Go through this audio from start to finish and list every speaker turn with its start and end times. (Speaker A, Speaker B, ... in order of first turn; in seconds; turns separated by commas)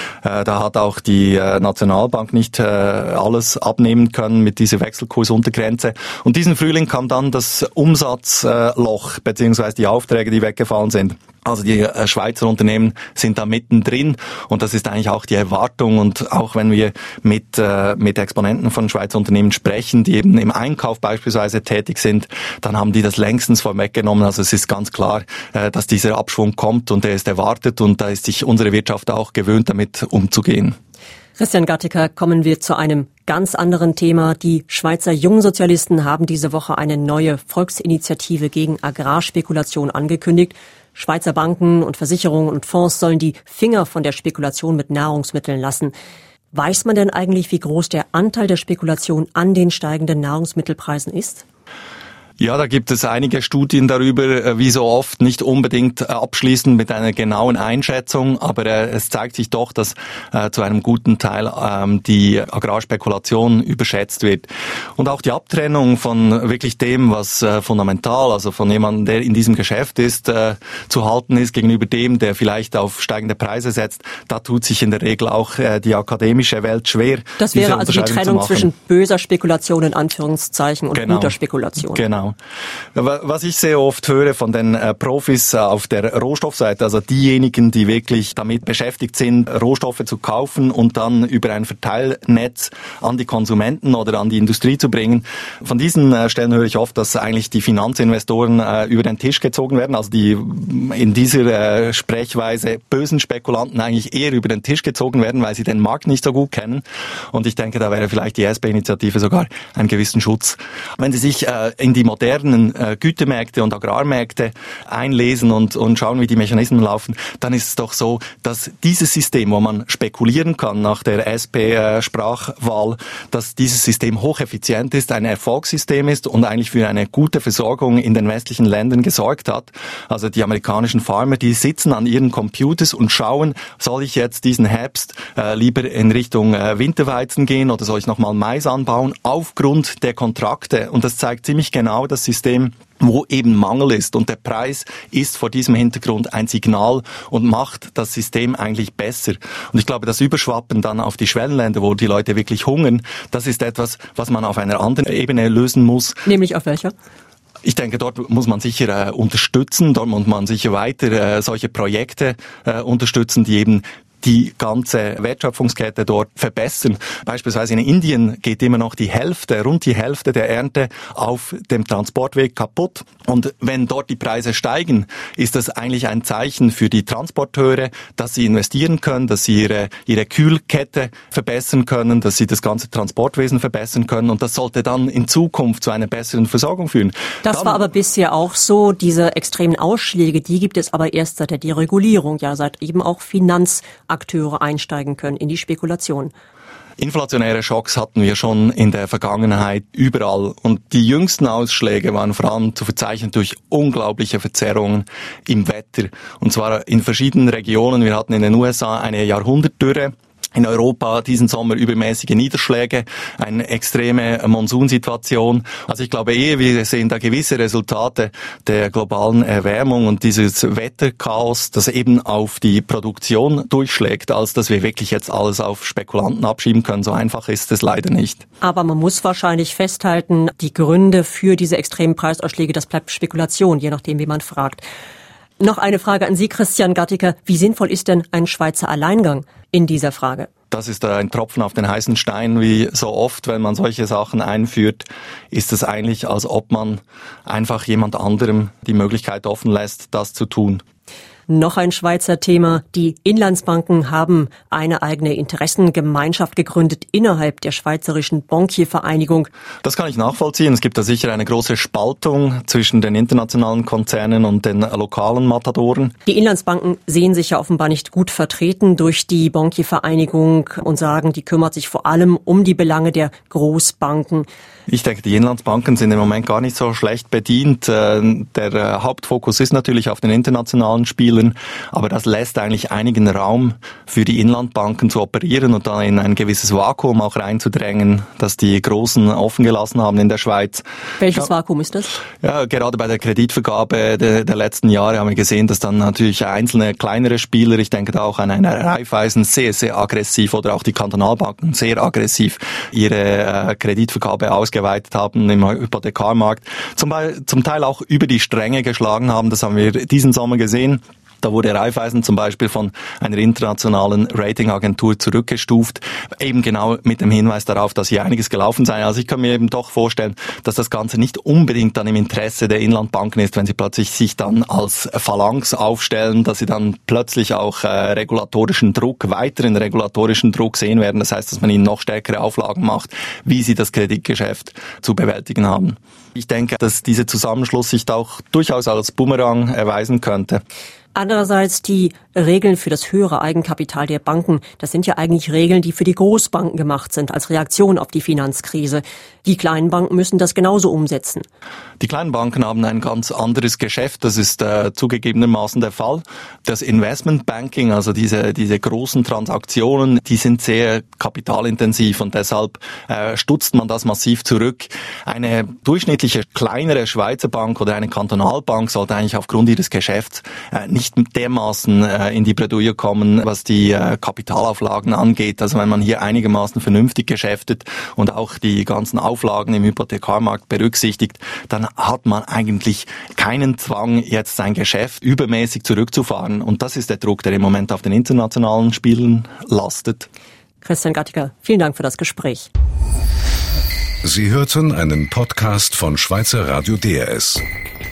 Speaker A: 0.2-30.7, Speaker B: 31.4-45.9, Speaker B: 46.5-51.4, Speaker A: 52.4-78.7, Speaker B: 77.4-82.0, Speaker A: 80.9-82.3, Speaker A: 82.9-156.2, Speaker B: 156.2-156.9, Speaker A: 157.6-187.8, Speaker B: 187.4-196.3, Speaker A: 197.0-228.4, Speaker B: 228.6-234.8, Speaker B: 235.6-240.5, Speaker A: 240.7-250.8, Speaker B: 251.5-259.5, Speaker A: 259.8-266.1, Speaker B: 266.2-274.5, Speaker A: 274.9-291.4, Speaker B: 291.2-292.1, Speaker A: 292.4-340.6, Speaker B: 341.1-351.4, Speaker A: 352.0-390.3, Speaker B: 390.8-392.7, Speaker C: 394.2-397.6